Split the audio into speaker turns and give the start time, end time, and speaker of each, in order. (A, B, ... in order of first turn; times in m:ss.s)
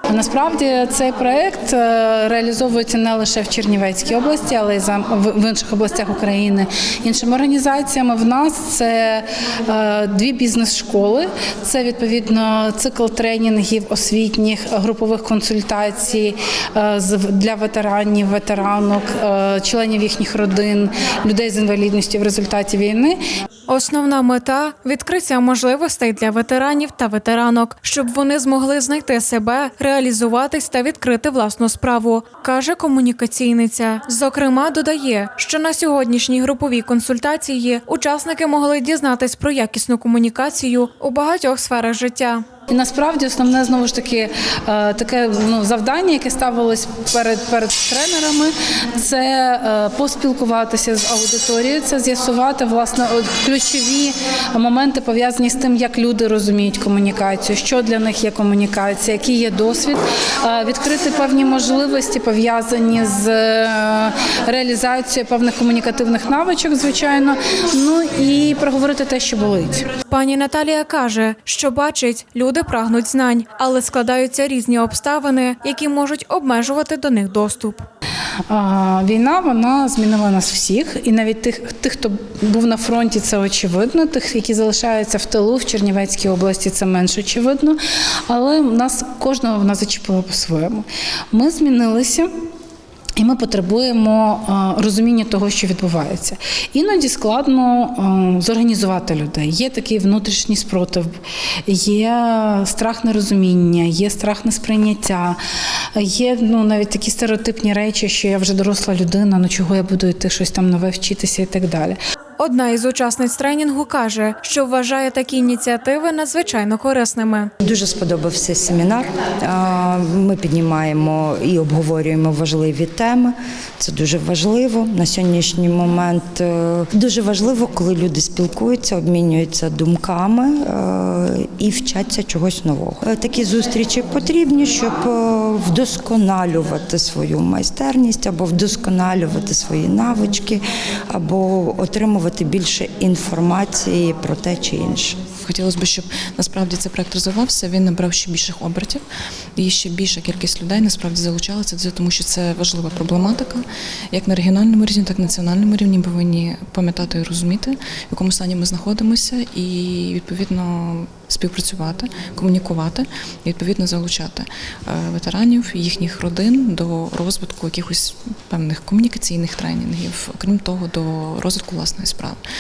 0:00.1-0:23.2 A
0:23.7-0:42.4 B
0:42.7-1:09.8 A
1:10.0-1:17.8 B
1:18.5-1:32.3 A
1:33.2-1:41.1 A
1:41.7-1:45.4 A
1:46.0-1:52.0 A
1:52.4-1:57.5 B
1:57.6-2:25.2 C
2:25.4-2:29.0 D
2:29.6-2:52.4 D